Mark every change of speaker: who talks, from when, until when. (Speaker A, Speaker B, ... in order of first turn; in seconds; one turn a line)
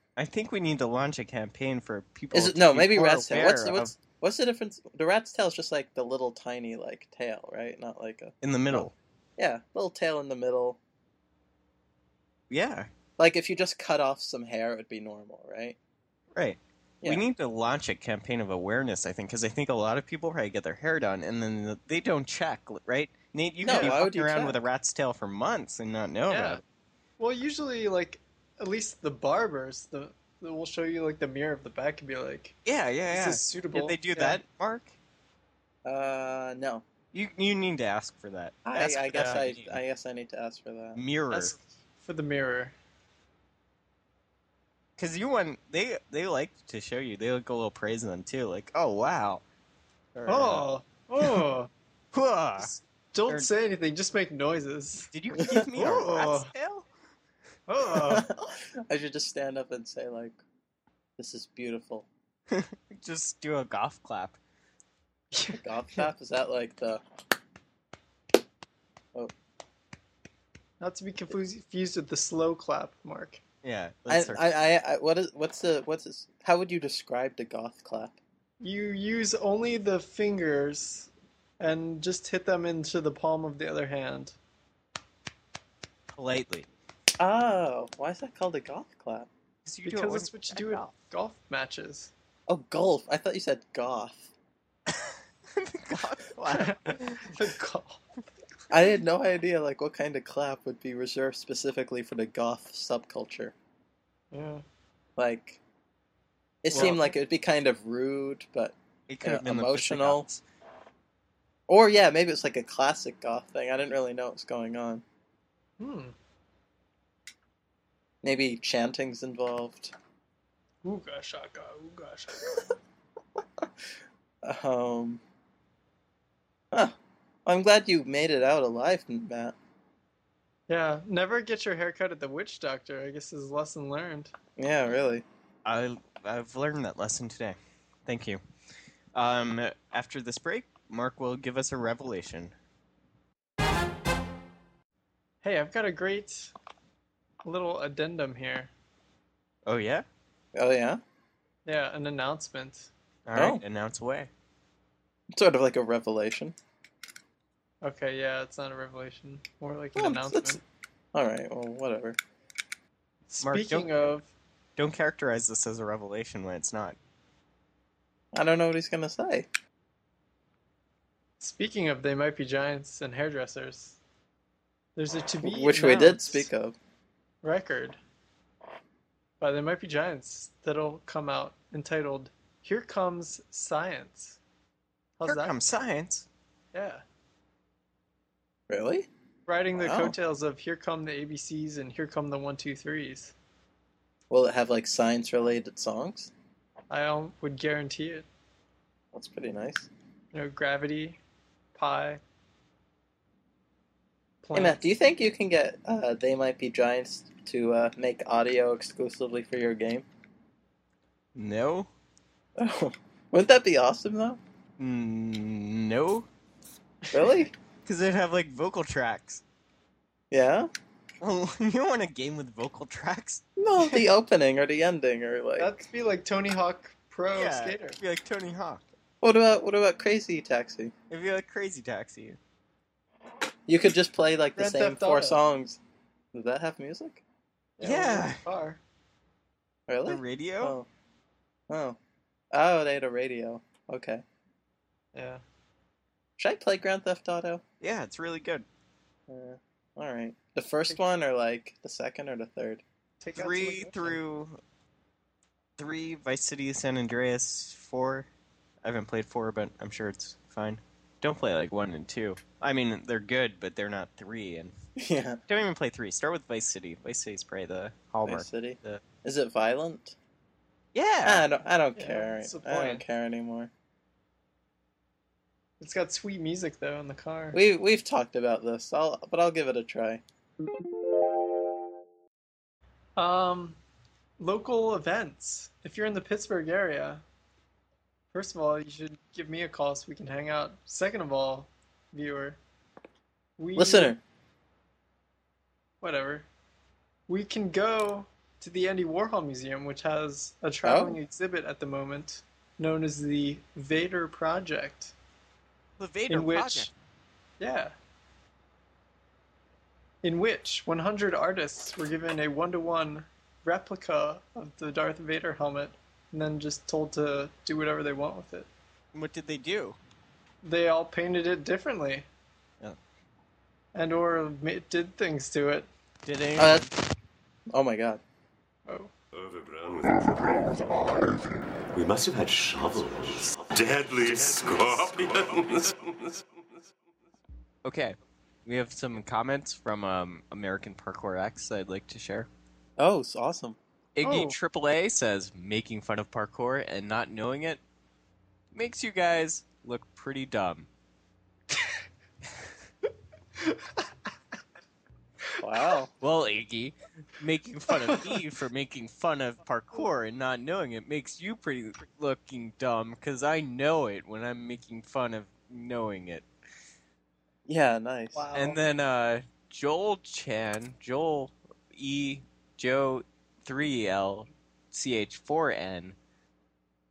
Speaker A: 0.2-4.0
Speaker B: 2.3-10.8
Speaker A: 8.4-8.9
Speaker A: 12.5-12.9
Speaker B: 13.2-15.8
Speaker A: 16.4-26.6
Speaker B: 23.6-24.7
Speaker C: 23.7-23.9
Speaker C: 26.3-26.6
Speaker C: 27.2-32.6
Speaker A: 32.6-34.9
Speaker C: 33.1-34.4
Speaker B: 35.9-36.9
Speaker A: 37.1-39.8
Speaker B: 38.6-41.0
Speaker C: 39.1-39.4
Speaker A: 41.0-41.5
Speaker C: 41.3-42.8
Speaker A: 45.0-49.4
Speaker A: 50.1-50.7
Speaker C: 50.3-51.7
Speaker A: 52.1-52.8
Speaker C: 53.1-55.1
Speaker A: 55.1-56.9
Speaker B: 55.4-55.7
Speaker C: 55.8-56.5
Speaker C: 57.7-58.3
Speaker B: 57.9-60.4
Speaker B: 61.2-62.1
Speaker A: 62.5-64.4
Speaker C: 65.3-66.1
Speaker B: 65.5-67.0
Speaker C: 70.8-73.4
Speaker A: 73.6-74.4
Speaker B: 74.1-78.2
Speaker C: 78.6-84.4
Speaker A: 86.2-86.7
Speaker B: 87.2-89.3
Speaker A: 89.7-90.9
Speaker C: 89.8-92.1
Speaker B: 92.5-94.3
Speaker A: 94.9-97.4
Speaker C: 96.5-98.0
Speaker B: 98.7-103.5
Speaker C: 104.3-104.6
Speaker B: 105.2-105.6
Speaker B: 106.6-110.3
Speaker A: 106.7-107.0
Speaker C: 106.8-107.0
Speaker A: 109.1-110.4
Speaker B: 111.7-115.0
Speaker C: 115.8-116.2
Speaker B: 118.2-120.0
Speaker C: 120.8-122.6
Speaker B: 124.4-125.2
Speaker B: 126.7-129.6
Speaker C: 130.7-134.3
Speaker B: 134.6-135.3
Speaker A: 135.7-138.4
Speaker A: 139.1-142.5
Speaker C: 145.4-146.5
Speaker C: 147.4-148.7
Speaker A: 149.7-150.1
Speaker B: 150.6-151.0
Speaker C: 151.7-152.9
Speaker A: 153.3-154.3
Speaker B: 153.3-153.6
Speaker B: 155.3-156.6
Speaker C: 157.8-160.6
Speaker B: 159.9-160.6
Speaker B: 161.1-162.2
Speaker C: 163.3-164.3
Speaker A: 163.4-164.1
Speaker A: 164.8-167.0
Speaker B: 168.3-169.5
Speaker C: 171.4-174.0
Speaker C: 175.0-176.5
Speaker B: 175.4-176.8
Speaker C: 177.4-178.0
Speaker C: 179.4-184.4
Speaker C: 185.2-185.6
Speaker A: 185.2-186.3
Speaker C: 186.7-187.0
Speaker B: 188.7-189.1
Speaker C: 189.5-193.3
Speaker B: 189.8-190.2
Speaker B: 194.3-196.3
Speaker C: 196.9-198.3
Speaker B: 199.1-199.9
Speaker C: 200.3-201.2
Speaker C: 201.8-202.2
Speaker C: 204.4-204.8
Speaker B: 204.6-210.1
Speaker A: 211.3-211.9
Speaker B: 212.6-214.4
Speaker A: 214.8-216.3
Speaker C: 217.1-217.3
Speaker B: 217.1-217.5
Speaker A: 217.9-219.4
Speaker B: 220.3-220.7
Speaker A: 221.2-223.4
Speaker B: 223.6-225.7
Speaker C: 225.6-228.0
Speaker A: 227.3-228.8
Speaker B: 229.2-230.9
Speaker A: 231.1-232.4
Speaker B: 233.7-235.8
Speaker C: 234.6-235.4
Speaker B: 236.3-237.2
Speaker C: 237.8-238.8
Speaker A: 237.8-238.4
Speaker B: 239.9-240.9
Speaker A: 240.1-240.8
Speaker B: 241.7-242.0
Speaker B: 242.5-244.2
Speaker C: 245.1-245.4
Speaker B: 246.4-247.6
Speaker A: 247.8-248.7
Speaker B: 249.3-252.8
Speaker C: 253.2-254.2
Speaker A: 253.3-254.6
Speaker A: 255.8-258.3
Speaker A: 258.8-264.7
Speaker B: 265.0-265.4
Speaker A: 265.5-269.0
Speaker B: 268.3-270.1
Speaker A: 270.9-271.5
Speaker B: 271.2-273.7
Speaker C: 272.0-273.0
Speaker C: 275.8-277.6
Speaker B: 277.5-280.2
Speaker C: 283.2-283.8
Speaker C: 284.4-287.2
Speaker C: 288.3-292.6
Speaker C: 293.6-294.1
Speaker B: 293.8-294.2
Speaker C: 296.0-296.5
Speaker C: 297.3-305.1
Speaker B: 300.8-301.2
Speaker A: 306.0-306.9
Speaker C: 306.3-306.9
Speaker C: 307.6-307.9
Speaker C: 310.2-318.7
Speaker A: 319.1-320.0
Speaker C: 320.6-322.3
Speaker C: 323.9-325.9
Speaker A: 326.2-326.9
Speaker B: 326.6-326.9
Speaker B: 327.7-328.2
Speaker D: 329.3-336.4
Speaker A: 334.2-335.1
Speaker A: 337.9-338.1
Speaker A: 338.7-342.5
Speaker B: 343.0-343.8
Speaker A: 344.2-347.8
Speaker C: 344.2-344.6
Speaker A: 348.7-350.9
Speaker C: 353.6-354.1
Speaker B: 355.6-356.1
Speaker A: 356.2-366.5
Speaker C: 357.9-358.4
Speaker B: 367.7-368.4
Speaker C: 368.3-368.8
Speaker A: 368.5-376.2